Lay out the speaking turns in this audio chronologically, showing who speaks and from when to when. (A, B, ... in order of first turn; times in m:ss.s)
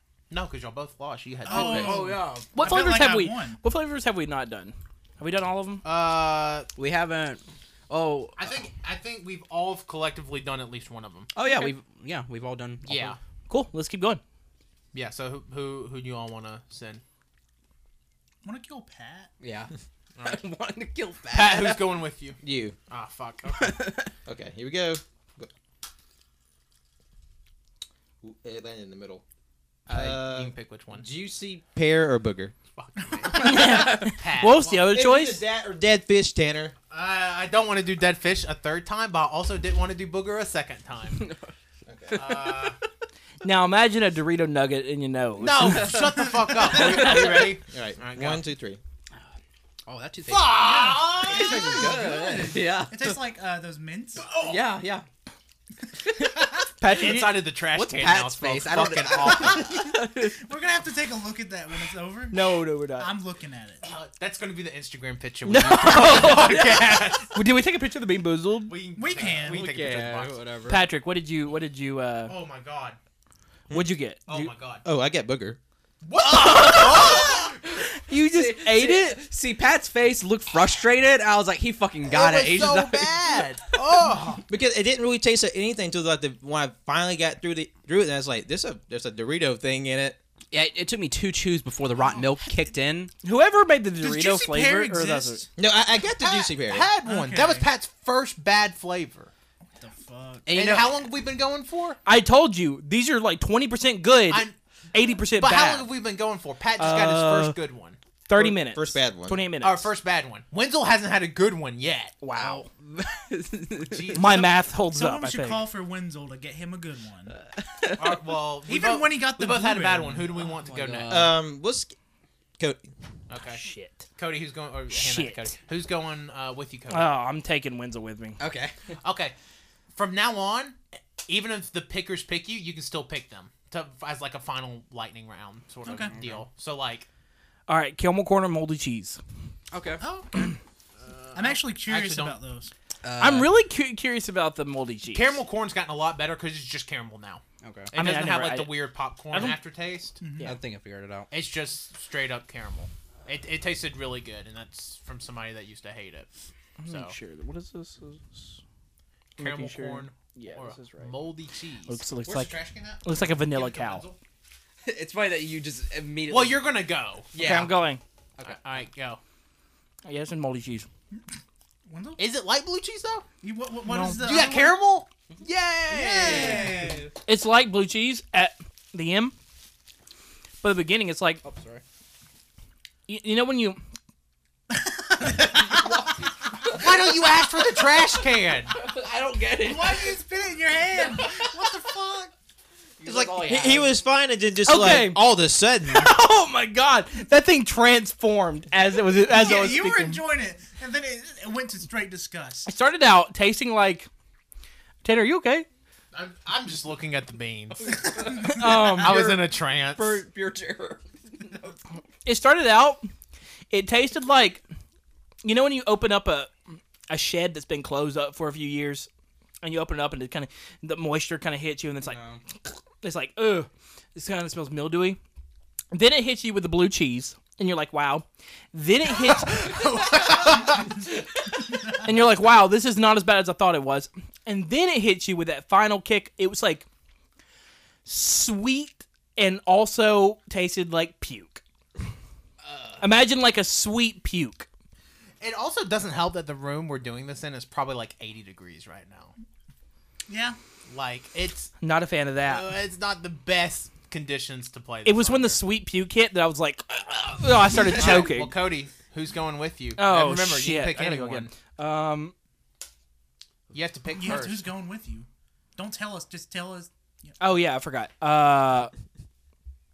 0:00.3-0:02.1 A
0:01.5-0:03.6 B
0:01.5-0:02.6 C
0:02.5-0:05.8 D
0:05.8-0:06.7 A
0:06.8-0:08.5 C
0:08.4-0:11.3 A
0:11.4-0:13.2 C
0:11.4-0:11.7 D
0:12.8-0:13.2 A
0:13.5-0:14.2 D
0:14.9-0:17.0 A
0:18.4-0:19.3 B
0:19.4-0:19.7 C
0:20.2-0:20.4 A
0:20.2-0:21.9 C
0:21.3-0:23.8 A
0:22.4-0:22.8 E
0:23.6-0:24.1 C
0:24.3-0:25.5 E
0:28.2-0:29.2 E
0:29.9-0:32.5 E
0:29.9-0:31.1 A
0:32.8-0:34.9 A
0:33.3-0:35.4 D
0:34.7-0:36.7 E
0:36.9-0:41.3 A
0:41.2-0:41.5 C
0:41.9-0:42.2 E
0:42.1-0:42.8 A
0:42.1-0:42.7 C
0:43.4-0:47.5 D
0:45.4-0:48.4 A
0:47.7-0:48.8 E
0:49.9-0:50.6 C
0:50.3-0:51.8 A
0:50.6-0:54.3 B
0:51.2-0:53.2 C
0:54.2-0:54.7 A
0:54.4-0:55.0 C
0:56.8-0:57.4 D
0:56.9-0:59.7 A
0:57.7-1:00.3 C
0:59.2-1:03.9 B
1:02.3-1:03.1 D
1:03.8-1:07.4 A
1:05.4-1:08.8 D
1:08.7-1:10.4 A
1:09.0-1:09.7 B
1:09.2-1:10.8 C
1:10.7-1:12.3 D
1:12.3-1:13.0 A
1:13.7-1:14.5 D
1:14.3-1:14.8 A
1:14.8-1:15.6 E
1:16.0-1:17.6 A
1:16.4-1:23.4 C
1:17.9-1:19.2 D
1:22.0-1:24.4 A
1:24.5-1:30.2 E
1:30.5-1:33.1 C
1:32.0-1:32.6 B
1:33.2-1:35.4 D
1:34.0-1:35.5 B
1:35.6-1:36.9 E
1:36.2-1:39.3 A
1:37.0-1:37.7 B
1:39.8-1:40.5 B
1:40.5-1:41.0 C
1:40.5-1:42.0 A
1:42.0-1:45.9 D
1:45.3-1:48.0 A
1:46.8-1:47.6 D
1:48.3-1:49.9 D
1:48.4-1:49.4 E
1:49.6-1:52.2 A
1:52.2-1:52.7 D
1:52.3-1:54.3 C
1:53.8-1:54.5 A
1:54.1-1:55.7 D
1:54.9-1:57.4 B
1:57.6-1:58.2 C
1:58.0-2:01.3 A
1:58.7-2:00.3 B
2:00.5-2:01.4 C
2:01.1-2:02.0 E
2:03.3-2:03.6 A
2:03.6-2:04.0 D
2:04.2-2:07.1 A
2:04.9-2:05.6 D
2:06.9-2:08.4 D
2:08.4-2:08.7 C
2:09.0-2:09.3 A
2:10.0-2:17.1 A
2:15.9-2:16.2 B
2:16.1-2:16.4 C
2:17.7-2:19.2 D
2:19.7-2:20.0 C
2:20.0-2:20.6 B
2:21.0-2:22.4 A
2:21.4-2:22.7 B
2:23.0-2:23.5 C
2:23.2-2:25.4 D
2:25.1-2:30.2 A
2:27.6-2:27.9 C
2:27.9-2:29.6 D
2:30.2-2:30.6 B
2:30.4-2:31.3 C
2:31.3-2:36.3 A
2:36.8-2:38.6 D
2:36.9-2:37.2 A
2:39.4-2:41.2 D
2:39.4-2:44.2 A
2:41.9-2:44.0 D
2:44.8-2:46.6 C
2:46.3-2:47.3 A
2:47.3-2:47.8 C
2:47.4-2:48.0 D
2:48.4-2:49.2 A
2:50.0-2:50.9 D
2:51.9-2:52.2 B
2:52.2-2:53.2 A
2:53.4-2:54.8 B
2:53.9-2:54.3 D
2:54.2-2:56.8 A
2:55.9-2:57.1 B
2:56.2-2:57.1 C
2:57.2-2:59.3 D
3:00.6-3:01.4 D
3:01.4-3:01.8 C
3:03.1-3:03.8 D
3:04.7-3:06.1 B
3:05.2-3:07.1 C
3:06.7-3:08.8 A
3:08.7-3:10.2 C
3:09.6-3:12.3 B
3:11.0-3:11.5 C
3:13.0-3:13.9 C
3:13.0-3:16.2 E
3:14.7-3:15.3 D
3:15.8-3:20.2 D
3:19.2-3:22.7 B
3:22.7-3:24.1 D
3:25.0-3:25.7 D
3:26.1-3:30.2 A
3:27.8-3:31.8 C
3:28.4-3:29.3 D
3:32.2-3:33.0 D
3:33.7-3:34.6 D
3:35.4-3:36.5 D
3:37.1-3:39.1 D
3:39.6-3:42.2 D
3:42.0-3:42.4 C
3:43.0-3:45.2 D
3:45.9-3:50.2 D
3:49.4-3:51.0 A
3:51.9-3:56.9 D
3:58.0-4:01.6 D
4:02.6-4:03.0 C
4:03.0-4:04.7 D
4:05.4-4:09.3 A
4:10.3-4:10.6 B
4:10.9-4:11.7 A
4:11.8-4:12.7 D
4:12.4-4:15.6 A
4:15.0-4:18.5 D
4:17.8-4:21.5 A
4:20.0-4:22.3 D
4:23.7-4:24.7 A
4:24.2-4:27.3 B
4:27.4-4:28.9 D